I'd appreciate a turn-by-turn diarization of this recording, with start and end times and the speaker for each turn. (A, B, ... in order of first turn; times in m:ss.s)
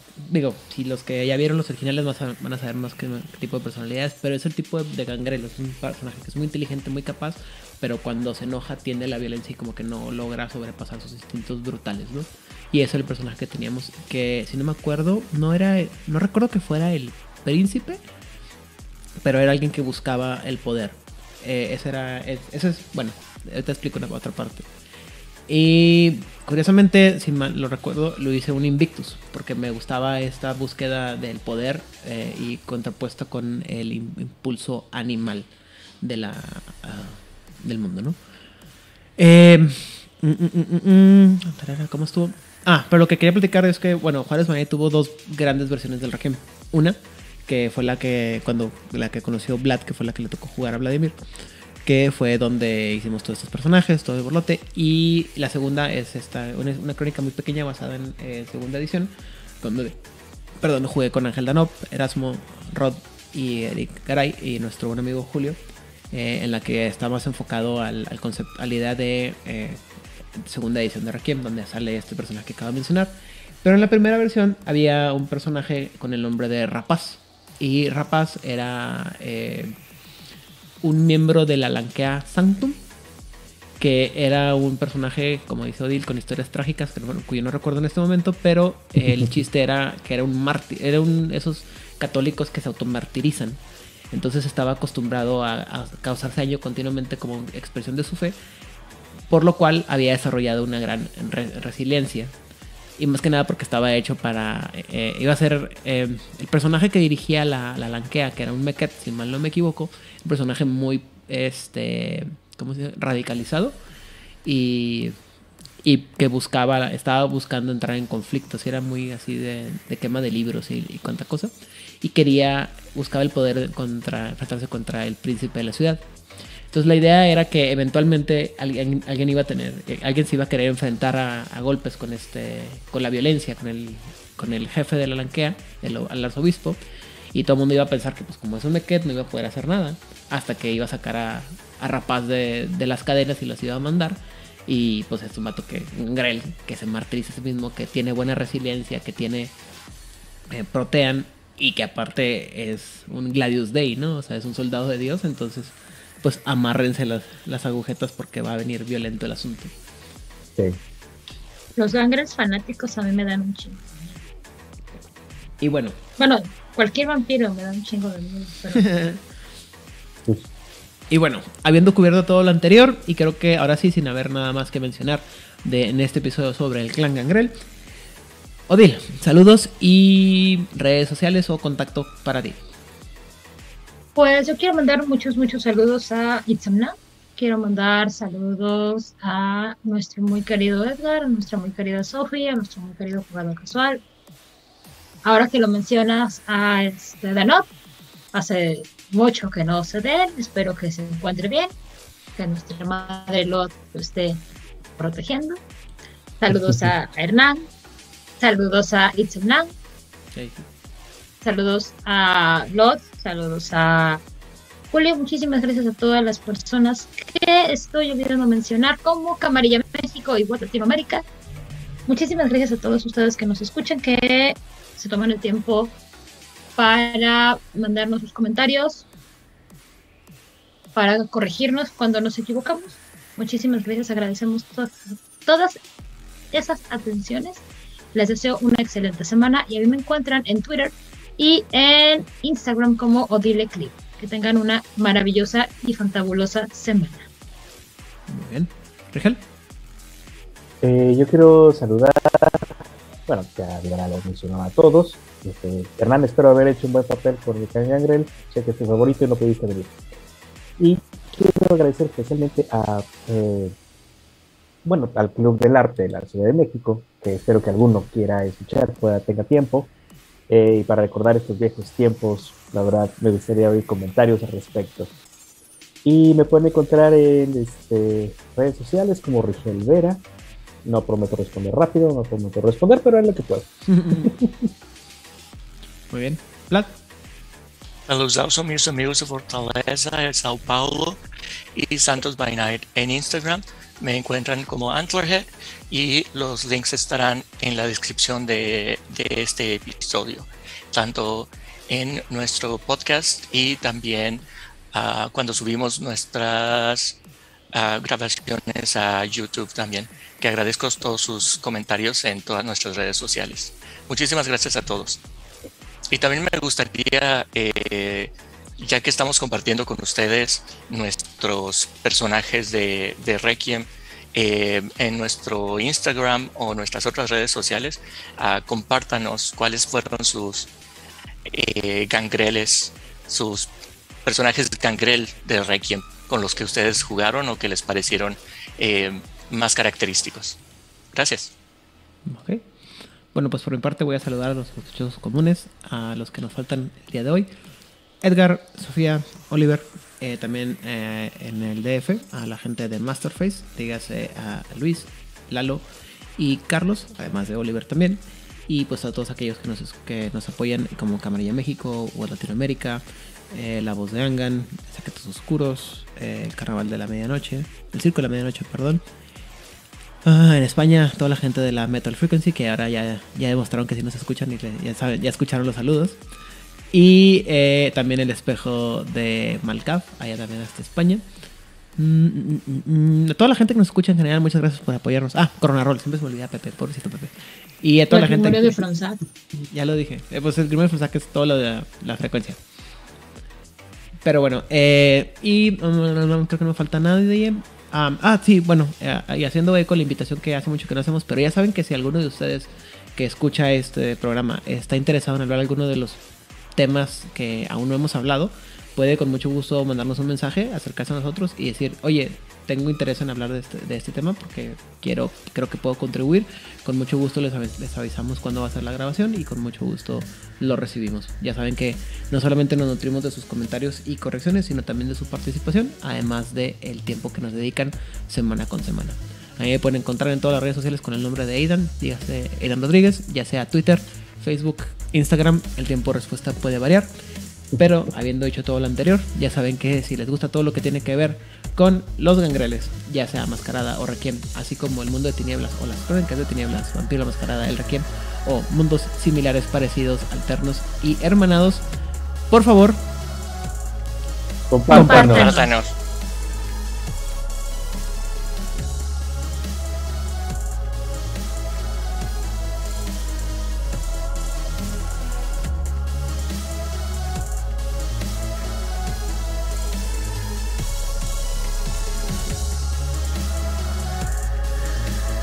0:00.2-0:18.0 A
0:19.2-0:24.7 A
0:25.5-0:35.5 A
0:36.0-0:38.2 A
0:39.2-0:51.2 A
0:51.8-1:00.0 A
1:00.6-1:05.6 A
1:06.1-1:09.8 A
1:10.4-1:19.8 A
1:20.8-1:22.8 A
1:23.8-1:33.6 A
1:34.1-1:38.4 A
1:39.3-1:42.4 A
1:43.0-1:53.8 A
1:54.4-1:55.2 A
1:55.8-2:06.1 A
2:06.7-2:16.8 A
2:17.3-2:29.6 A
2:30.5-2:39.7 A
2:41.8-2:44.2 B
2:45.6-2:46.0 A
2:46.2-2:49.0 B
2:48.8-2:49.2 A
2:51.1-2:57.6 A
2:58.7-3:02.6 A
3:04.2-3:14.0 B
3:15.2-3:17.7 B
3:18.3-3:21.7 B
3:22.4-3:24.4 B
3:25.0-3:25.6 B
3:26.4-3:27.7 B
3:26.5-3:26.8 C
3:28.4-3:29.7 B
3:30.3-3:30.7 A
3:31.4-3:34.2 B
3:34.9-3:41.2 B
3:42.1-3:45.9 B
3:46.8-3:49.1 B
3:51.0-3:55.8 B
3:56.5-3:57.6 B
3:58.1-4:07.3 B
4:08.3-4:09.4 A
4:10.8-4:12.8 C
4:13.3-4:20.0 C
4:20.8-4:23.8 C
4:24.8-4:29.9 C
4:30.5-4:35.1 C
4:36.0-4:40.2 C
4:40.8-4:44.7 C
4:43.9-4:44.3 A
4:46.1-4:47.0 A
4:48.1-4:51.2 D
4:51.7-5:07.2 D
5:07.7-5:15.2 D
5:16.1-5:30.7 D
5:31.5-5:33.7 D
5:34.2-5:40.6 D
5:41.1-5:41.5 D
5:42.3-5:42.7 A
5:43.3-5:47.5 A
5:48.2-5:55.8 A
5:56.4-6:09.0 A
6:10.2-6:16.2 A
6:16.9-6:21.2 A
6:22.0-6:28.8 A
6:28.1-6:29.2 B
6:29.6-6:32.6 A
6:34.2-6:46.2 A
6:46.8-7:17.1 A
7:17.8-7:31.9 A
7:32.5-7:33.0 A
7:34.7-7:35.5 C
7:34.9-7:35.7 B
7:34.9-7:35.9 D